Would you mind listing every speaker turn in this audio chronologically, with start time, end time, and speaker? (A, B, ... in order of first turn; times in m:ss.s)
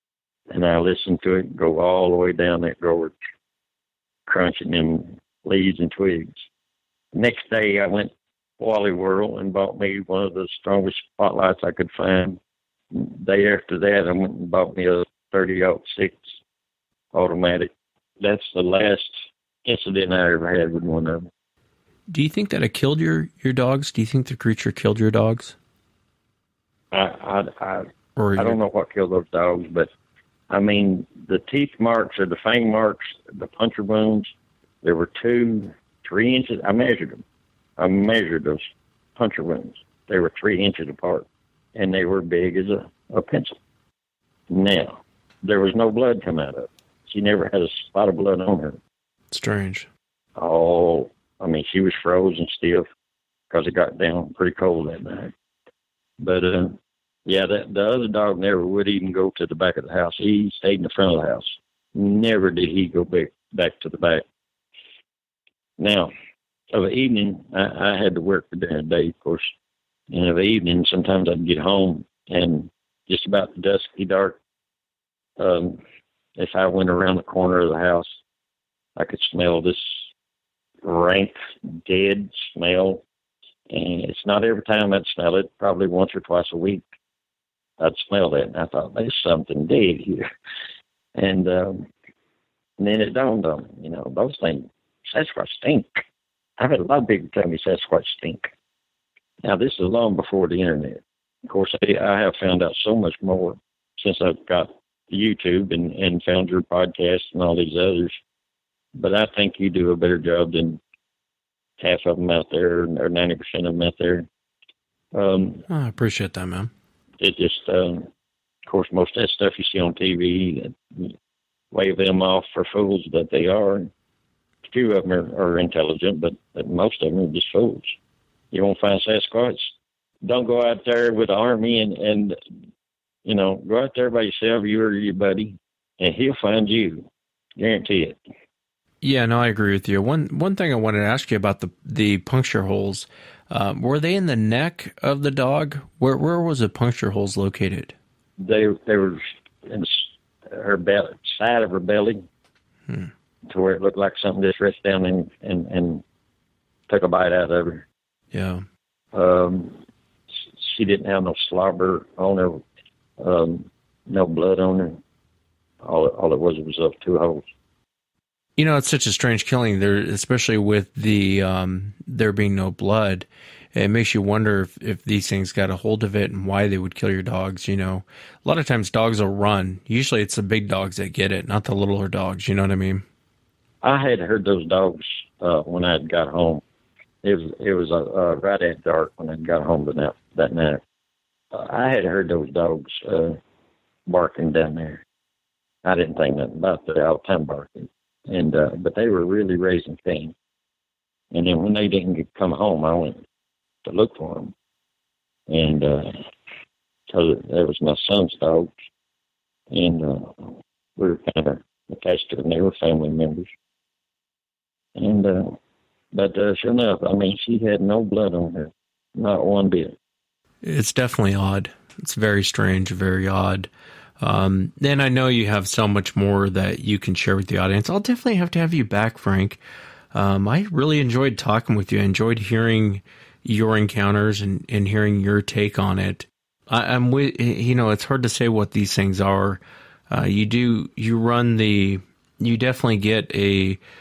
0:00.5-0:03.2 A
0:04.3-0:06.4 A
0:07.1-0:12.4 A
0:12.9-0:16.4 A
0:17.1-0:21.3 A
0:22.1-0:25.6 B
0:26.9-0:29.9 A
0:28.2-0:28.6 B
0:30.5-0:34.3 A
0:34.8-0:37.2 A
0:37.8-0:43.6 A
0:44.5-0:48.8 A
0:49.3-0:49.9 B
0:50.4-0:52.9 A
0:53.5-0:55.3 A
0:56.2-1:04.2 A
1:05.8-1:06.1 A
1:06.7-1:09.5 A
1:10.1-1:14.4 A
1:15.4-1:15.8 A
1:16.4-1:18.1 A
1:19.0-1:20.1 A
1:20.8-1:23.0 A
1:23.7-1:26.9 A
1:27.8-1:30.3 A
1:31.2-1:31.9 A
1:32.8-1:36.0 A
1:36.6-1:38.5 A
1:39.4-1:48.2 A
1:49.0-1:50.8 A
1:51.8-1:54.3 A
1:55.1-1:55.6 A
1:55.7-1:56.7 B
1:57.2-1:58.1 A
1:58.7-2:01.2 A
2:01.7-2:03.9 A
2:04.7-2:08.0 A
2:08.5-2:12.4 A
2:13.2-2:18.2 A
2:19.0-2:28.0 B
2:28.4-2:32.3 A
2:33.5-2:36.0 A
2:36.9-2:37.9 A
2:38.3-2:38.6 B
2:39.1-2:39.8 A
2:40.4-2:42.6 A
2:43.2-2:45.0 A
2:45.8-2:47.4 A
2:48.6-3:03.0 B
3:03.8-3:06.6 A
3:07.2-3:10.8 A
3:11.5-3:13.4 A
3:14.1-3:15.0 A
3:15.8-3:20.4 A
3:21.3-3:23.2 A
3:23.8-3:24.5 A
3:25.5-3:26.2 A
3:27.1-3:28.7 A
3:29.7-3:33.5 A
3:35.0-3:35.6 A
3:36.1-3:40.0 A
3:40.6-3:43.7 B
3:44.2-3:49.6 B
3:50.1-4:03.8 B